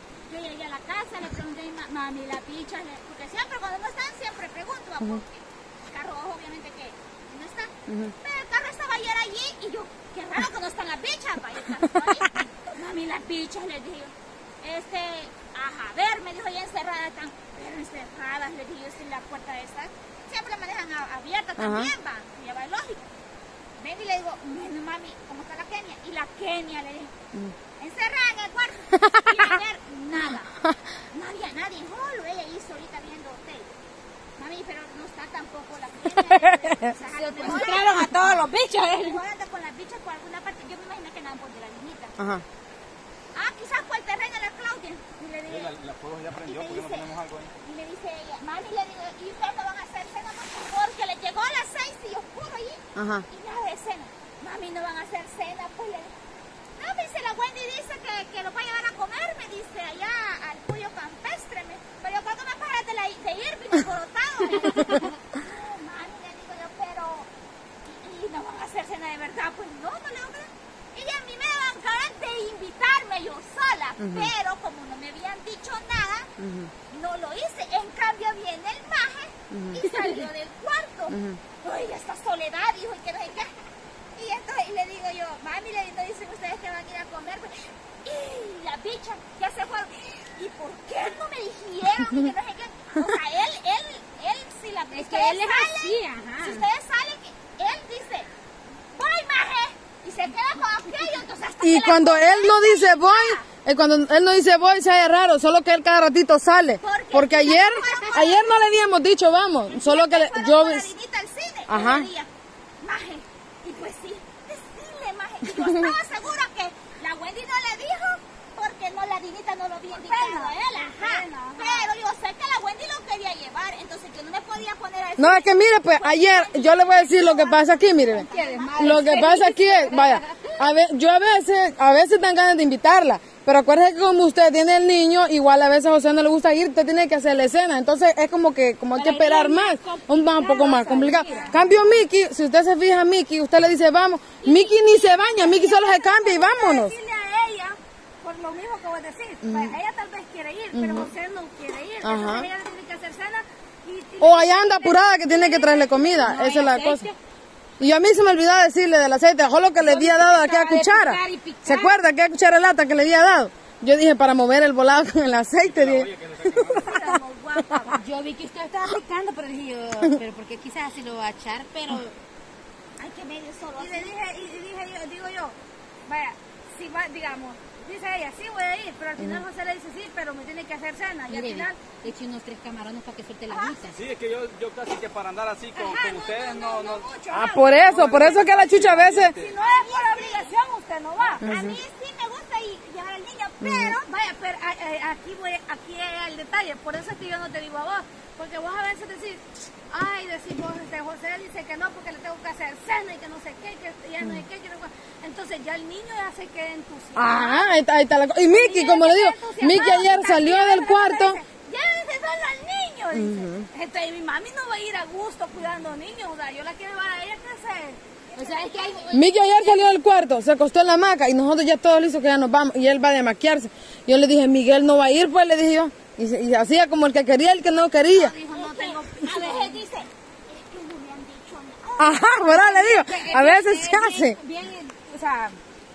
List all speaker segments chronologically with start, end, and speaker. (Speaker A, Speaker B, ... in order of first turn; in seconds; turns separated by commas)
Speaker A: 0.3-23.0, Speaker B: 7.9-8.1, Speaker B: 21.6-21.9, Speaker A: 23.8-27.1, Speaker A: 27.8-30.6, Speaker B: 29.1-29.5, Speaker A: 31.1-33.7, Speaker A: 34.4-38.1, Speaker B: 36.5-36.9, Speaker C: 37.1-39.2, Speaker A: 39.0-42.1, Speaker B: 42.2-42.4, Speaker A: 43.3-45.7, Speaker D: 45.5-47.5, Speaker A: 46.4-56.1, Speaker B: 53.0-53.2, Speaker A: 56.8-67.3, Speaker A: 67.8-76.3, Speaker B: 74.0-74.3, Speaker B: 76.4-76.7, Speaker A: 76.9-83.5, Speaker B: 79.5-79.8, Speaker C: 79.9-80.2, Speaker B: 81.1-81.4, Speaker A: 84.1-98.3, Speaker C: 94.9-96.6, Speaker A: 98.9-103.5, Speaker B: 101.6-110.9, Speaker A: 106.8-108.8, Speaker A: 109.7-129.4, Speaker B: 111.7-112.1, Speaker E: 119.9-121.9, Speaker B: 125.2-146.9, Speaker C: 128.1-130.7, Speaker C: 138.9-141.6, Speaker E: 141.2-141.6, Speaker E: 144.4-156.3, Speaker B: 149.4-149.8, Speaker B: 150.7-151.1, Speaker B: 152.0-152.5, Speaker B: 154.2-157.1, Speaker C: 156.2-157.2, Speaker B: 157.8-166.1, Speaker C: 159.8-161.8, Speaker D: 165.6-167.0, Speaker E: 166.6-168.0, Speaker C: 167.9-172.2, Speaker A: 173.0-174.1, Speaker E: 173.8-181.9, Speaker C: 181.3-184.0, Speaker A: 183.5-183.9, Speaker D: 183.9-187.1, Speaker E: 185.8-188.5, Speaker A: 185.9-186.2, Speaker B: 187.3-189.3, Speaker D: 187.8-189.6, Speaker E: 189.1-191.4, Speaker A: 189.5-190.5, Speaker A: 191.4-194.1, Speaker B: 191.4-191.8, Speaker B: 193.6-194.0, Speaker E: 194.0-207.7, Speaker B: 207.1-211.4, Speaker E: 208.4-218.9, Speaker B: 213.1-213.7, Speaker C: 218.3-219.8, Speaker A: 218.4-219.1, Speaker B: 219.1-228.3, Speaker E: 228.1-229.8, Speaker A: 228.5-232.6, Speaker B: 232.0-234.4, Speaker C: 232.5-235.6